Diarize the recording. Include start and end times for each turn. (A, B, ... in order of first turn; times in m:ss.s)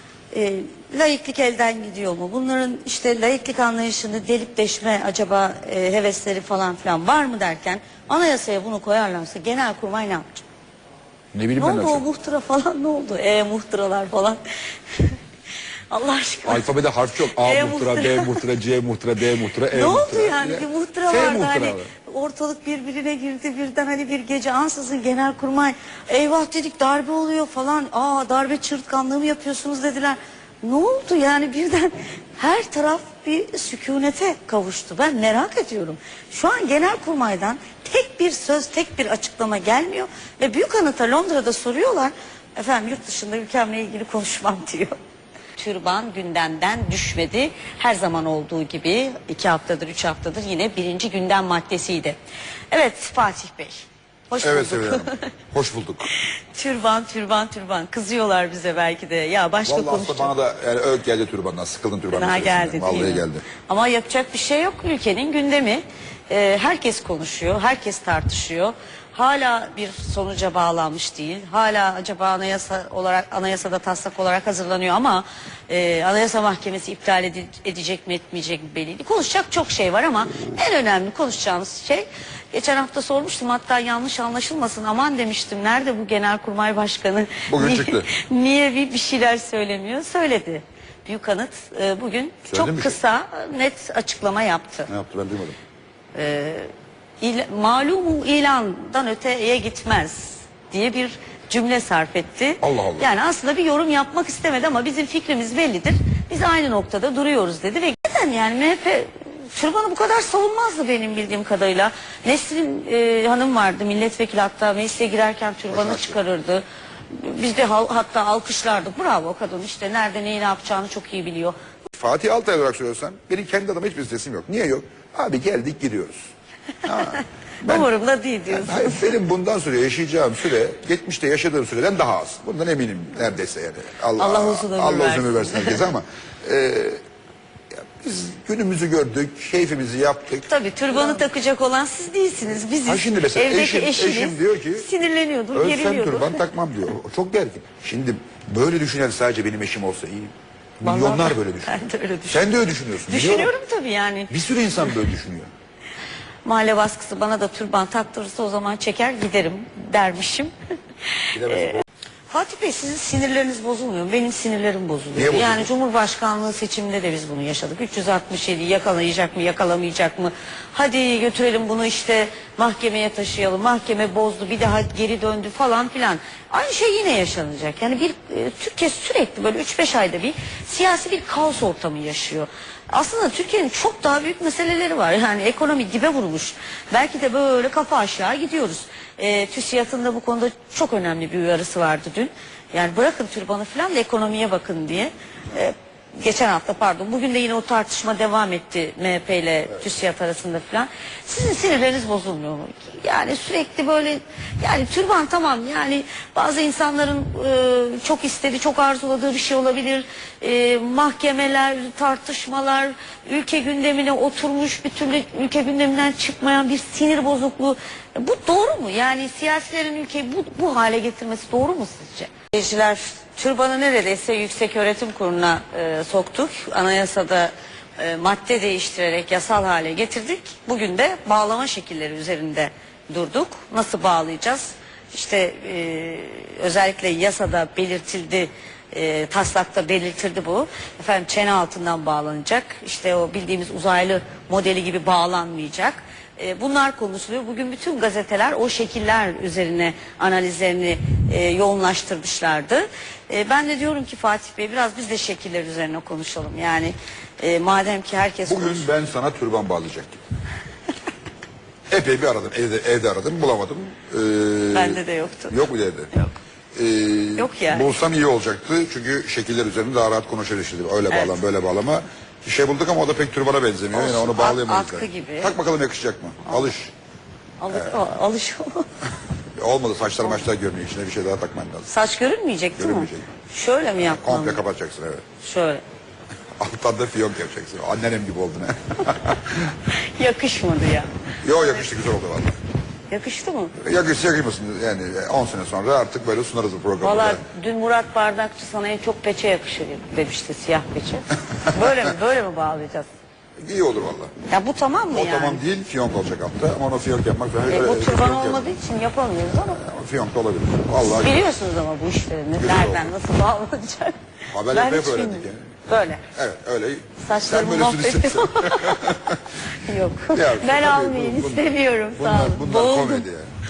0:00.3-0:10.5 A
0:11.3-0:12.0 B
0:11.6-0:15.2 A
0:15.9-0:16.7 A
0:16.4-0:21.9 B
0:17.3-0:18.4 A
0:19.7-0:44.9 A
0:45.6-0:52.2 A
0:52.7-0:55.3 A
0:54.4-0:56.1 B
0:56.2-1:00.3 A
0:59.7-1:03.5 B
1:02.1-1:34.9 A
1:27.5-1:28.1 B
1:32.5-1:33.0 B
1:34.9-1:35.6 B
1:36.2-1:36.7 A
1:37.2-2:01.6 A
1:42.6-1:43.1 B
1:55.7-1:56.2 B
2:01.9-2:06.2 B
2:06.8-2:07.9 B
2:07.0-2:09.1 A
2:08.5-2:17.0 B
2:14.2-2:15.8 A
2:18.0-2:20.5 B
2:20.4-2:26.4 A
2:22.9-2:24.9 B
2:25.5-2:31.8 B
2:30.8-2:32.5 A
2:32.3-2:33.5 B
2:33.0-2:34.3 A
2:34.3-2:35.5 B
2:36.4-2:40.5 A
2:41.1-4:18.9 A
2:41.3-2:41.8 B
2:45.2-2:45.7 B
4:18.5-4:20.2 B
4:21.9-4:26.1 B
4:24.7-4:26.4 A
4:26.8-4:36.9 B
4:27.4-4:27.9 A
4:31.1-4:31.4 A
4:33.9-4:35.6 A
4:37.6-4:38.9 A
4:37.7-4:38.0 B
4:39.6-4:41.9 B
4:41.9-4:44.6 A
4:42.8-4:43.3 B
4:44.0-4:45.2 B
4:45.4-4:45.8 A
4:46.6-4:49.8 B
4:49.8-4:51.1 A
4:51.4-4:52.6 B
4:53.1-4:53.8 A
4:53.8-4:57.4 B
4:57.0-5:03.1 A
5:03.6-5:04.3 B
5:04.5-5:05.6 A
5:05.1-5:08.7 B
5:07.7-5:09.8 A
5:09.5-5:11.4 B
5:11.1-5:14.2 A
5:12.6-5:13.1 B
5:14.5-5:15.7 B
5:14.7-5:16.2 A
5:16.4-5:19.4 B
5:17.2-5:23.2 A
5:20.3-5:23.5 B